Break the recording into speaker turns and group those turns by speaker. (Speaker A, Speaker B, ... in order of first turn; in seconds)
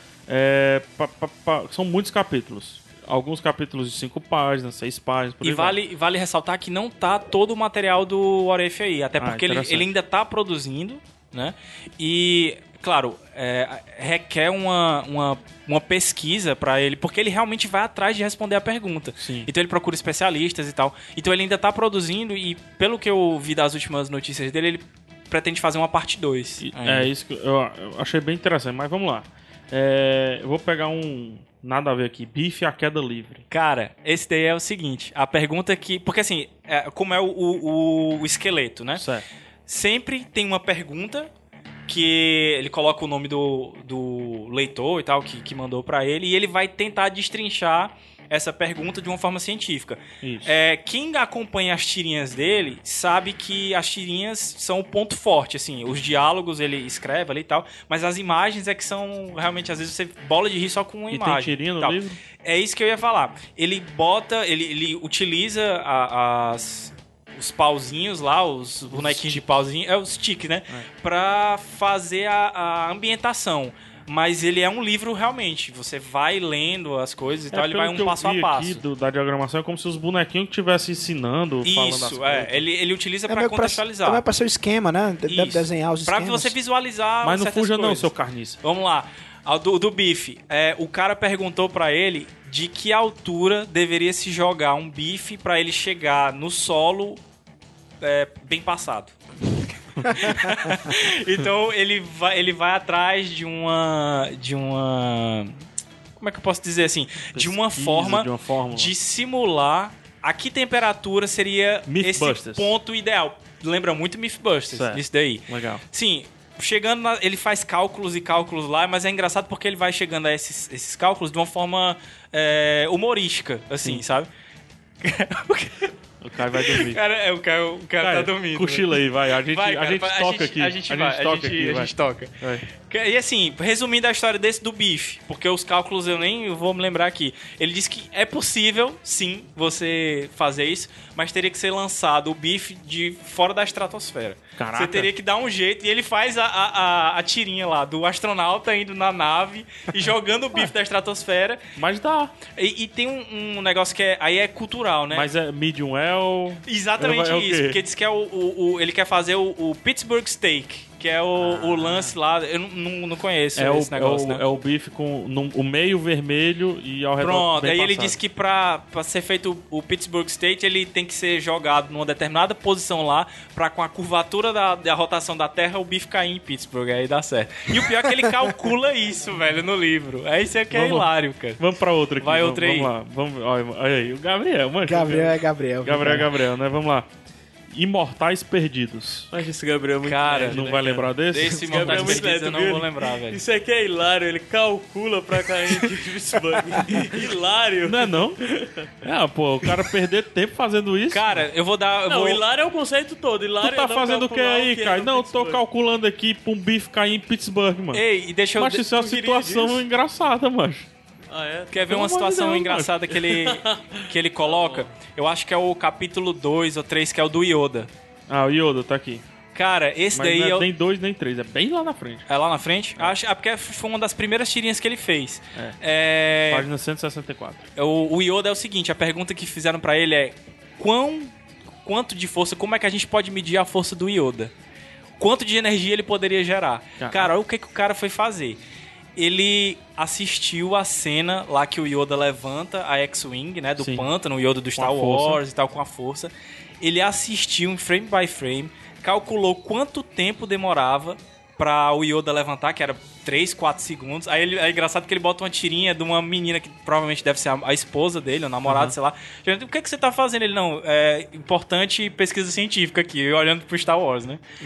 Speaker A: 0.3-5.8, 9.2-9.9, 19.2-19.5, 26.6-33.4, 39.0-39.2, 50.2-50.5, 61.1-62.2, 68.9-69.4, 77.5-82.6, 87.2-88.6, 100.0-100.2, 107.3-108.9, 111.9-112.8, 114.7-115.8, 126.2-127.0, 128.0-132.7, 144.6-145.1, 151.8-152.4, 155.1-157.8, 161.4-162.1, 163.6-168.2, 180.7-187.1, 187.7-189.3, 190.5-192.2, 197.8-198.4, 199.0-201.4, 203.6-208.0, 208.6-210.9, 211.9-213.0, 218.3-219.2, 220.1-222.2, 226.5-227.6, 237.0-237.3, 243.8-244.1, 244.8-245.4, 258.6-258.9
Speaker B: 5.4-27.1, 33.5-39.0, 39.7-41.3, 41.9-78.8, 81.6-84.2, 85.3-88.1, 88.6-97.2, 98.0-99.1, 100.1-105.6, 106.2-124.3, 125.0-151.6, 152.5-155.3, 156.7-164.4, 167.2-181.6, 182.2-182.9, 190.0-193.4, 201.1-202.4, 207.9-209.7, 211.7-217.9, 219.5-220.7, 222.3-226.7, 227.8-231.3, 231.8-234.5, 235.2-238.6, 239.2-264.4
Speaker C: 83.3-86.5, 184.8-186.3
Speaker D: 189.3-198.9, 202.1-205.6, 209.2-209.8, 211.3-211.9, 213.4-214.9